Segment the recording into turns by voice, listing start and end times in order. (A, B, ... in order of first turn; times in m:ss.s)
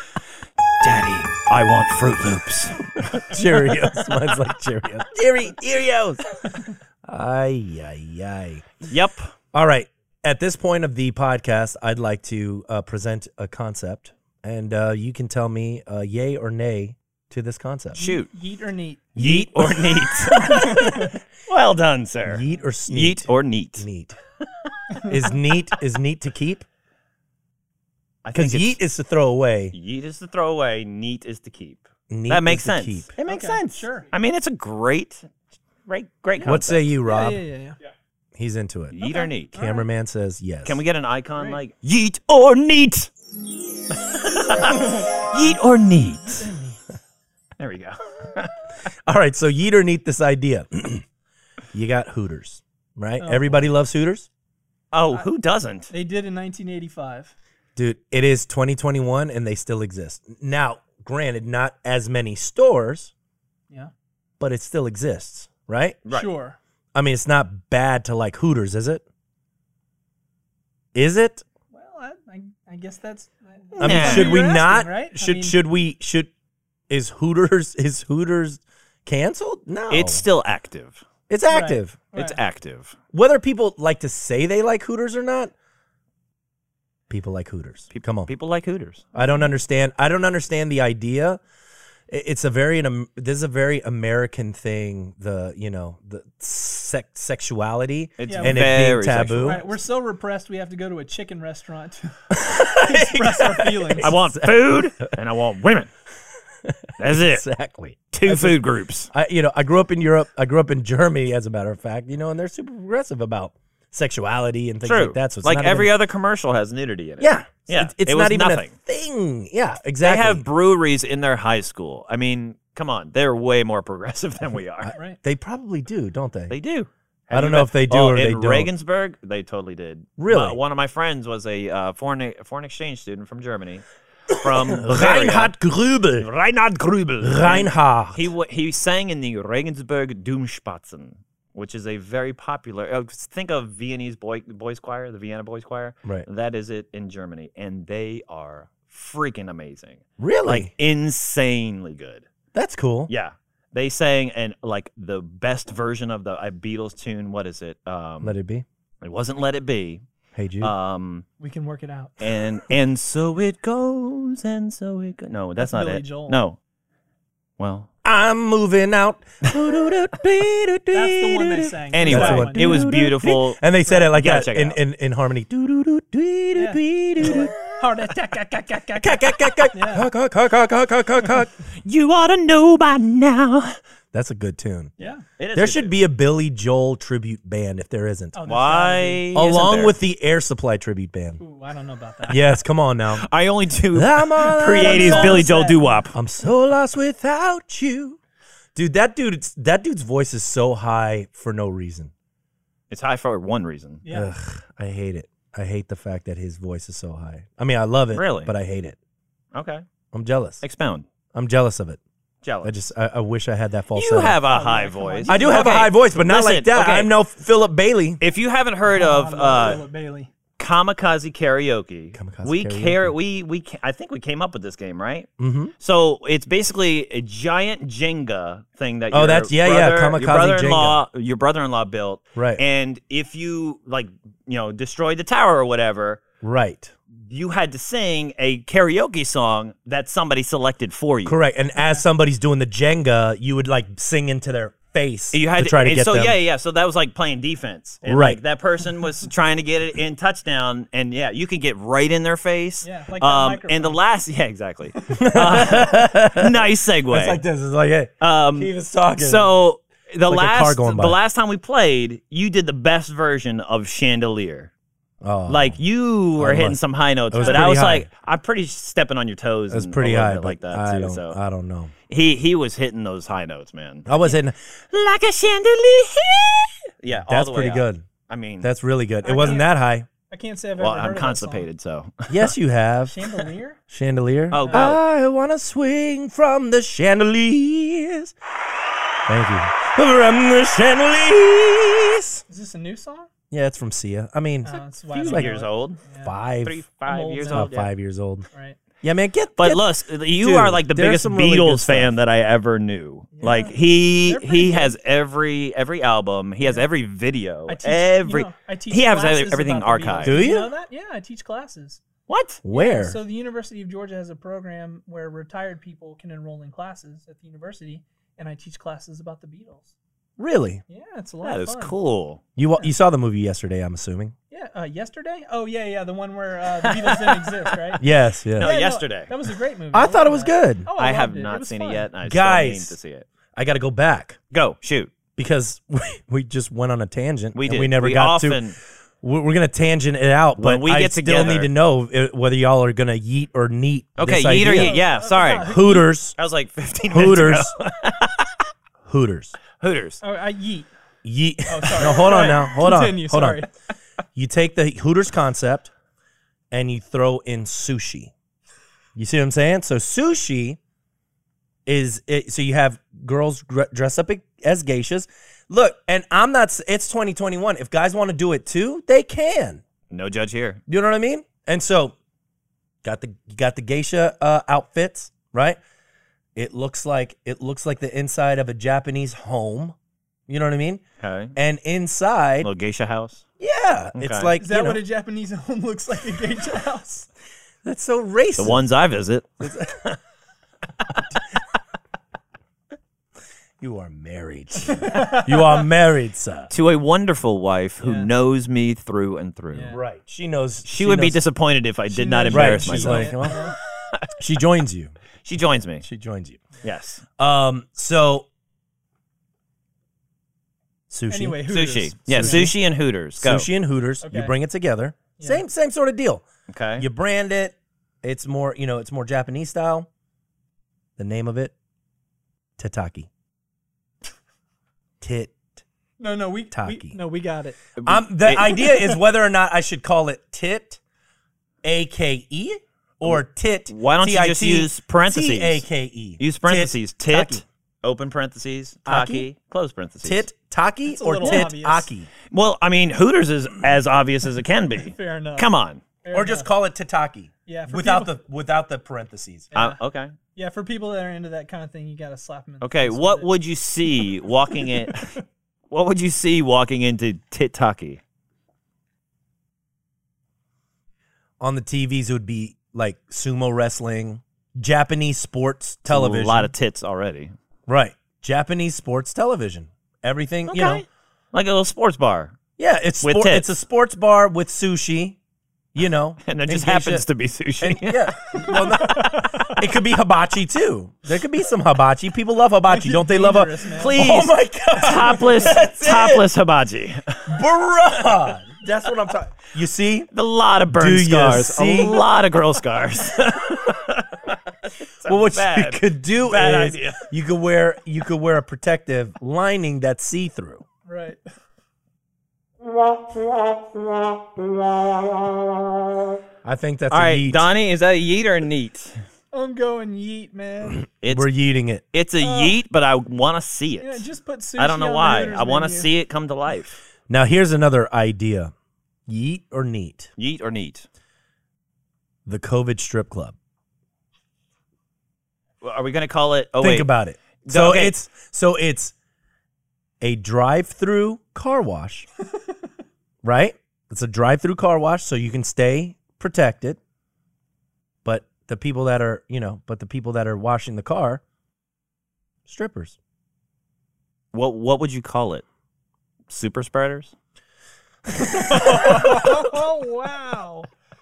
0:00.8-0:03.3 A
0:03.2-0:08.8 B
0:08.8-0:09.3 A
0:09.5-0:18.0 B
0:17.9-0:19.0 C
0:18.0-0:18.3 A
0:19.1-0:21.1 B
0:19.2-0:23.9 A
0:20.4-0:21.2 C
0:22.2-0:24.2 B
0:25.0-0:26.7 B
0:28.2-0:28.8 A
0:28.3-0:29.7 B
0:29.7-0:35.3 A
0:32.1-0:33.1 B
0:33.2-0:34.1 C
0:35.8-0:36.8 A
0:36.4-0:37.8 C
0:36.4-0:37.4 B
0:38.3-0:39.0 B
0:38.9-0:39.6 A
0:39.0-0:39.8 C
0:39.5-0:40.8 B
0:40.6-0:43.1 A
0:43.9-0:46.5 A
0:46.4-0:46.8 C
0:47.6-0:48.6 A
0:49.1-0:51.0 B
0:51.7-0:54.3 B
0:53.2-0:53.6 C
0:54.9-0:55.9 A
0:55.9-0:57.3 C
0:57.8-1:03.1 B
1:04.4-1:06.0 B
1:06.1-1:06.6 C
1:06.9-1:09.0 B
1:10.9-1:11.4 B
1:11.7-1:15.6 C
1:13.8-1:14.4 A
1:13.8-1:16.3 B
1:16.9-1:20.2 B
1:19.9-1:21.0 A
1:21.3-1:22.0 B
1:21.5-1:22.4 C
1:22.1-1:23.0 A
1:23.1-1:25.5 B
1:27.1-1:28.3 B
1:27.9-1:29.1 A
1:29.1-1:31.4 B
1:32.1-1:39.6 B
1:38.2-1:39.6 A
1:38.2-1:38.7 C
1:39.4-1:44.1 C
1:42.3-1:45.1 B
1:44.0-1:45.9 A
1:46.6-1:55.9 B
1:47.0-1:47.4 A
1:48.1-1:49.1 A
1:54.8-1:58.7 A
1:57.2-2:00.4 B
2:00.0-2:04.9 A
2:04.8-2:06.5 B
2:04.9-2:05.2 C
2:06.5-2:15.5 A
2:07.3-2:08.7 B
2:10.2-2:10.6 B
2:14.3-2:16.3 B
2:16.2-2:32.3 A
2:17.2-2:18.3 B
2:30.2-2:30.7 B
2:32.5-2:33.1 B
2:33.1-2:38.3 A
2:38.2-2:38.6 B
2:39.0-2:40.0 A
2:40.3-2:40.7 B
2:40.6-2:41.2 A
2:41.4-2:42.1 C
2:42.2-2:46.6 A
2:45.6-2:46.4 C
2:47.6-2:47.9 A
2:48.0-2:57.5 B
2:50.9-2:52.9 C
2:51.9-2:54.8 A
2:56.5-3:00.1 C
2:59.0-3:01.5 B
3:01.8-3:03.8 A
3:04.1-3:04.9 B
3:05.0-3:05.2 C
3:05.0-3:05.9 A
3:05.5-3:08.4 B
3:08.3-3:09.3 C
3:08.5-3:10.0 A
3:09.3-3:11.4 B
3:11.4-3:12.4 C
3:12.3-3:13.3 B
3:13.1-3:16.2 A
3:13.9-3:15.5 B
3:14.6-3:16.1 C
3:16.1-3:18.2 B
3:18.7-3:22.1 B
3:22.9-3:24.0 A
3:24.0-3:24.3 C
3:24.1-3:29.0 B
3:28.1-3:28.5 A
3:29.5-3:29.8 A
3:30.1-3:30.6 B
3:30.6-3:31.0 A
3:31.3-3:32.0 B
3:32.4-3:32.7 A
3:32.6-3:34.4 B
3:33.9-3:37.1 A
3:34.5-3:35.9 C
3:35.3-3:38.2 B
3:38.2-3:39.8 A
3:38.8-3:40.3 C
3:40.6-3:56.2 A
3:42.1-3:43.1 B
3:45.4-3:45.7 B
3:49.1-3:51.0 B
3:52.4-3:52.6 B
3:56.4-3:56.9 B
3:57.2-4:01.4 A
4:01.2-4:06.4 B
4:05.3-4:17.4 A
4:08.1-4:08.4 B
4:12.8-4:14.0 C
4:15.1-4:19.5 B
4:18.2-4:24.7 A
4:20.3-4:21.2 B
4:25.2-4:25.8 B
4:25.5-4:31.4 A
4:26.4-4:26.8 B
4:27.3-4:28.1 B
4:27.4-4:27.8 C
4:29.7-4:31.9 B
4:32.1-4:34.1 A
4:34.1-4:34.6 B
4:34.9-4:38.7 A
4:37.2-4:38.0 B
4:38.6-4:40.1 B
4:39.2-4:39.7 C
4:40.3-4:41.7 C
4:40.8-4:42.5 A
4:42.3-4:43.3 B
4:43.0-4:43.8 C
4:43.9-4:48.3 B
4:44.5-4:44.9 C
4:44.5-4:45.0 A
4:49.3-4:52.4 B
4:52.5-4:53.3 C
4:53.5-4:55.6 B
4:54.6-4:56.4 C
4:55.1-4:56.0 A
4:56.2-4:56.8 B
4:56.6-4:57.9 A
4:57.0-4:57.7 C
4:57.5-4:58.4 B
4:58.5-4:58.8 C
4:59.0-4:59.8 B
4:59.6-5:10.4 A
5:00.4-5:02.1 B
5:03.3-5:03.7 C
5:04.2-5:04.9 C
5:07.7-5:12.0 C
5:10.2-5:10.7 B
5:12.3-5:12.6 A
5:12.6-5:13.2 B
5:12.7-5:19.9 C
5:20.4-5:20.8 B
5:20.9-5:21.9 C
5:21.4-5:22.4 A
5:22.6-5:24.3 B
5:24.5-5:28.0 C
5:26.8-5:27.8 A
5:28.0-5:28.7 B
5:28.6-5:29.3 A
5:28.6-5:32.1 C
5:29.9-5:30.9 B
5:31.0-5:33.3 A
5:32.2-5:33.0 B
5:33.5-5:34.4 B
5:34.5-5:35.1 A
5:35.4-5:38.6 B
5:37.5-5:38.8 A
5:39.2-5:45.0 B
5:40.6-5:41.7 A
5:44.2-5:45.8 A
5:44.7-5:46.1 C
5:45.6-5:46.4 B
5:46.4-5:48.5 A
5:47.1-5:47.7 B
5:49.0-5:49.6 B
5:49.8-5:50.2 A
5:50.2-5:50.9 C
5:51.2-5:53.6 B
5:51.7-5:53.7 C
5:54.3-5:55.9 B
5:56.7-5:58.3 B
5:59.2-6:00.8 B
6:01.8-6:09.8 B
6:10.1-6:10.8 A
6:10.9-6:12.1 B
6:13.0-6:15.8 B
6:16.6-6:19.9 B
6:20.5-6:21.0 B
6:21.2-6:21.5 A
6:21.6-6:22.7 B
6:22.6-6:23.4 A
6:23.6-6:25.0 B
6:24.2-6:24.5 A
6:24.6-6:27.3 C
6:27.8-6:28.8 B
6:28.6-6:29.6 A
6:29.6-6:30.2 B
6:33.8-6:36.7 B
6:34.7-6:35.8 C
6:36.7-6:40.0 A
6:38.0-6:38.3 C
6:39.7-6:40.0 C
6:39.9-6:41.4 B
6:40.9-6:44.3 A
6:42.1-6:43.8 C
6:42.5-6:43.6 B
6:44.4-6:45.1 B
6:45.4-6:46.0 A
6:46.0-6:46.6 B
6:46.8-6:47.2 A
6:47.4-6:48.5 B
6:51.1-6:51.6 B
6:51.3-6:52.7 C
6:51.7-6:53.7 A
6:52.3-6:52.8 B
6:53.4-6:56.4 B
6:54.2-6:54.5 C
6:55.4-6:55.6 C
6:56.7-6:57.0 A
6:57.0-7:00.1 B
7:01.2-7:01.7 B
7:02.8-7:03.3 B
7:05.2-7:05.8 B
7:06.2-7:07.8 C
7:06.7-7:07.2 B
7:08.0-7:08.9 A
7:08.0-7:11.0 B
7:11.8-7:17.6 B
7:13.2-7:15.8 A
7:16.4-7:20.4 A
7:19.0-7:19.5 B
7:20.2-7:22.3 B
7:21.0-7:22.1 C
7:21.4-7:21.7 A
7:22.5-7:26.0 A
7:25.0-7:25.7 C
7:26.2-7:26.7 C
7:26.3-7:29.7 B
7:27.6-7:28.4 C
7:29.7-7:30.0 C
7:29.7-7:30.3 A
7:30.5-7:33.5 C
7:32.8-7:35.4 A
7:34.8-7:35.4 C
7:35.9-7:38.2 A
7:41.6-7:46.7 B
7:46.1-7:47.5 A
7:47.9-7:51.0 B
7:50.7-7:52.6 A
7:52.8-7:55.4 B
7:53.2-7:53.7 A
7:55.9-7:57.2 B
7:56.4-7:58.8 A
7:57.8-8:06.4 B
7:58.5-7:59.7 C
8:02.9-8:04.2 C
8:04.0-8:07.6 A
8:07.5-8:10.3 B
8:10.3-8:17.3 A
8:10.9-8:12.2 B
8:15.2-8:20.8 B
8:21.0-8:21.4 C
8:26.6-8:27.7 B
8:27.1-8:29.2 A
8:29.5-8:31.0 C
8:31.2-8:31.5 A
8:31.2-8:32.0 B
8:32.1-8:34.2 A
8:32.4-8:32.8 C
8:34.0-8:36.1 C
8:34.8-8:37.0 A
8:37.3-8:38.7 B
8:39.3-8:40.3 B
8:40.4-8:41.1 A
8:42.4-8:43.5 B
8:45.8-8:47.1 A
8:46.8-8:49.1 B
8:47.6-8:48.1 A
8:50.2-8:52.3 B
8:53.4-8:57.0 B
8:58.2-9:01.4 B
9:02.6-9:03.2 B
9:04.5-9:05.6 A
9:06.5-9:07.3 A
9:08.4-9:10.9 C
9:08.6-9:09.1 A